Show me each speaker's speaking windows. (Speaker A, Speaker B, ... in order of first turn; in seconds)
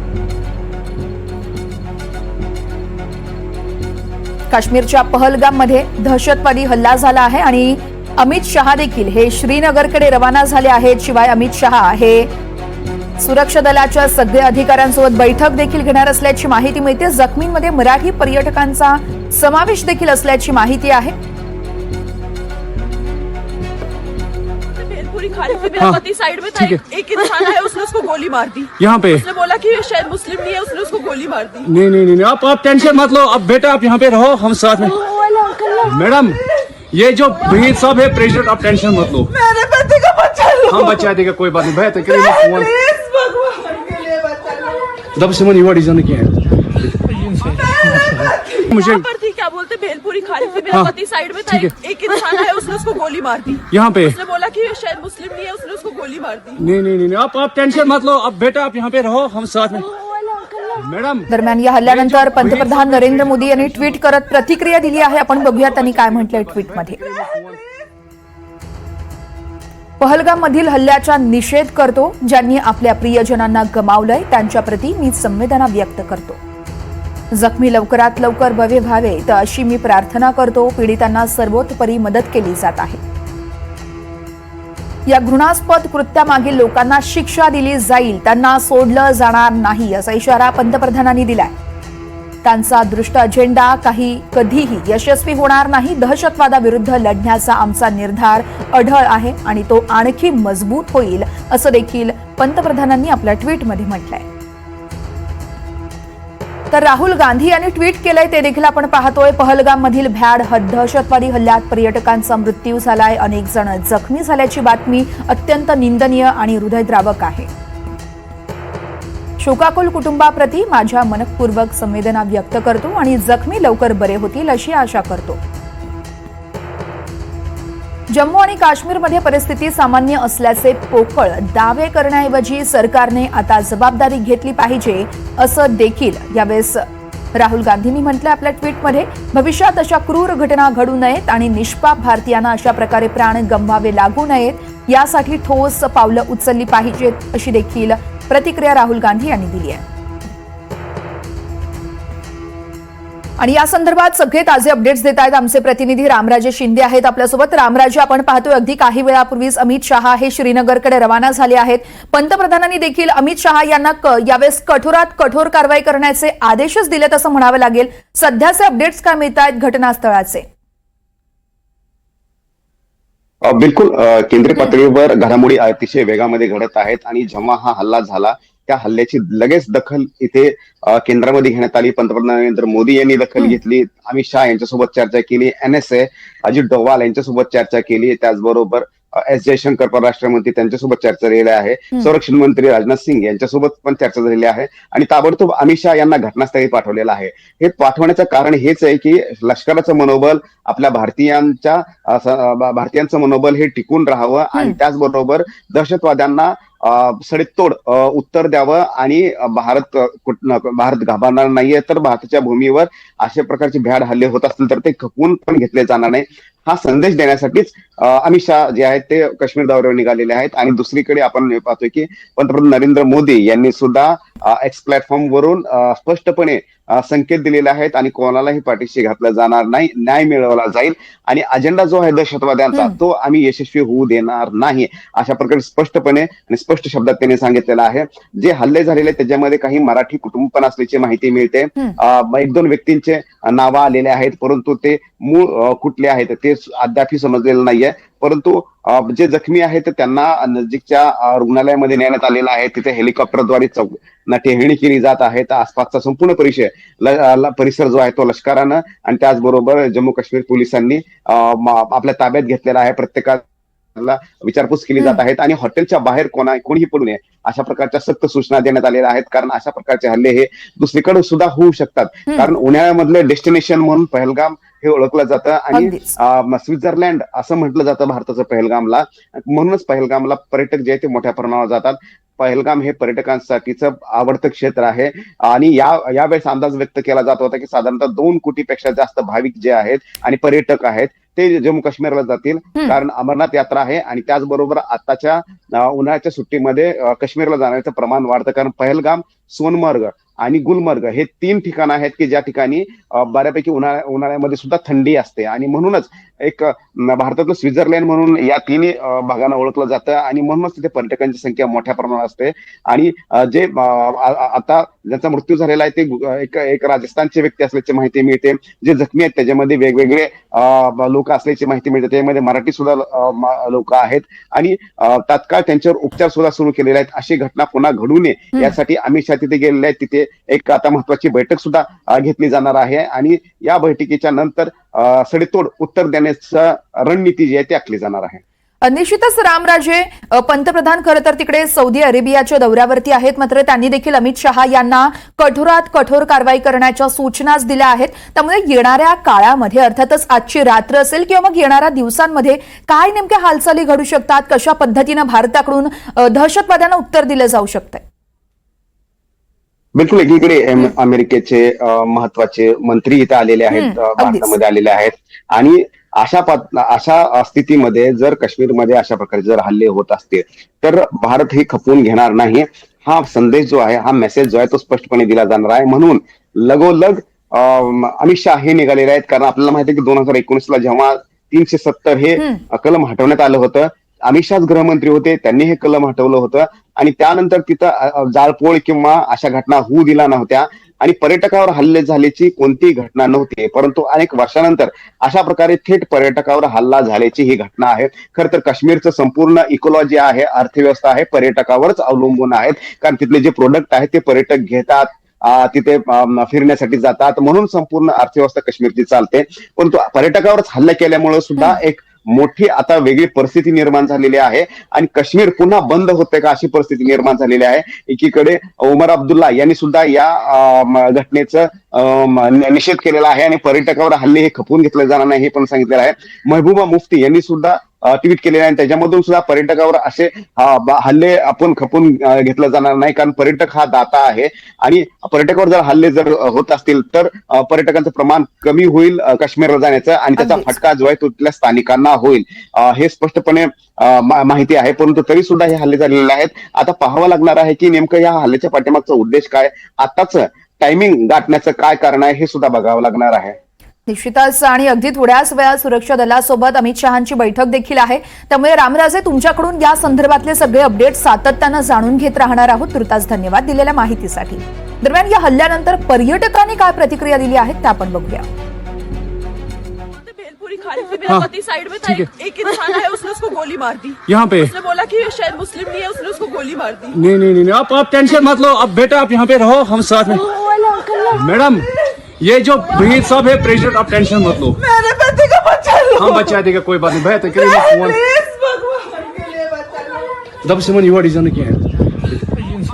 Speaker A: 4.5-12.3, 13.2-21.1, 61.3-67.0, 70.0-76.4, 77.3-83.0, 85.1-91.5, 92.4-104.2, 106.7-117.5, 119.4-125.4, 128.1-136.8, 137.3-149.8, 153.4-170.4, 275.7-276.2, 338.8-358.0, 363.7-364.6, 440.4-440.8, 454.1-468.5
Speaker B: 24.8-31.6, 39.6-40.5, 43.0-44.6, 48.7-56.6, 470.2-477.1, 485.1-486.1, 488.4-490.1
Speaker C: 26.5-26.8, 28.8-29.2, 31.6-35.0, 35.8-36.4, 36.9-39.3, 40.6-42.9, 45.1-46.3, 48.7-49.0, 51.5-51.7, 53.7-54.2, 56.6-59.9, 60.7-61.3, 61.8-64.0, 65.3-67.7, 472.0-472.3, 474.3-474.7, 477.1-480.5, 481.3-481.9, 482.4-484.8, 486.1-488.4, 490.6-491.8
Speaker D: 173.4-263.4, 263.9-338.4, 359.9-453.6